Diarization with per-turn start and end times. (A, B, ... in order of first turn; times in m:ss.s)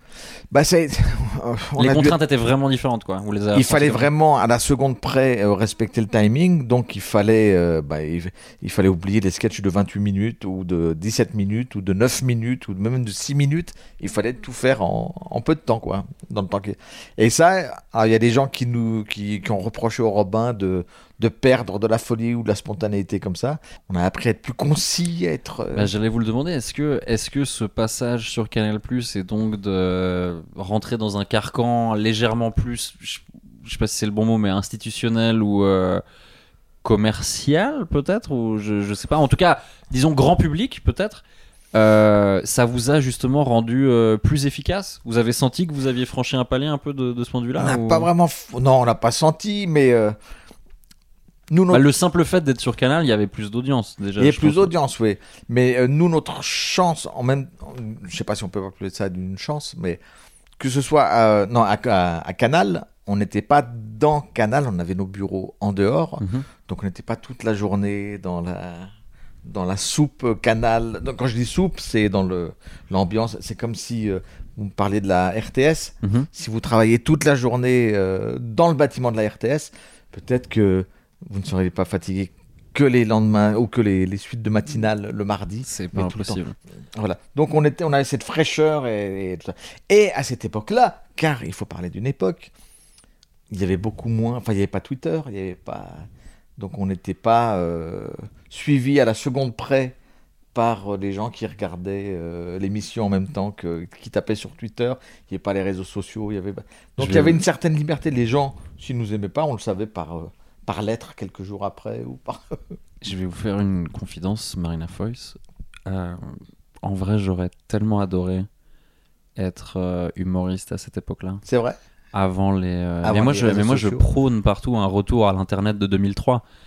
0:00.5-0:02.2 A
0:01.8-0:04.1 B
0:03.5-0:25.9 A
0:25.7-0:36.0 B
0:36.8-0:41.2 B
0:41.7-0:48.1 B
0:47.6-0:50.2 A
0:51.5-0:51.9 A
0:51.7-0:54.7 B
0:54.2-1:00.0 A
1:00.6-1:08.9 A
1:06.2-1:06.5 B
1:09.4-1:26.4 A
1:16.0-1:16.3 B
1:25.6-1:26.6 B
1:26.9-1:32.5 A
1:33.5-1:40.0 A
1:40.5-1:52.8 A
1:47.0-1:47.4 B
1:53.0-1:58.5 B
1:59.4-2:01.4 B
2:01.4-2:01.8 A
2:02.1-2:06.4 B
2:03.0-2:04.1 A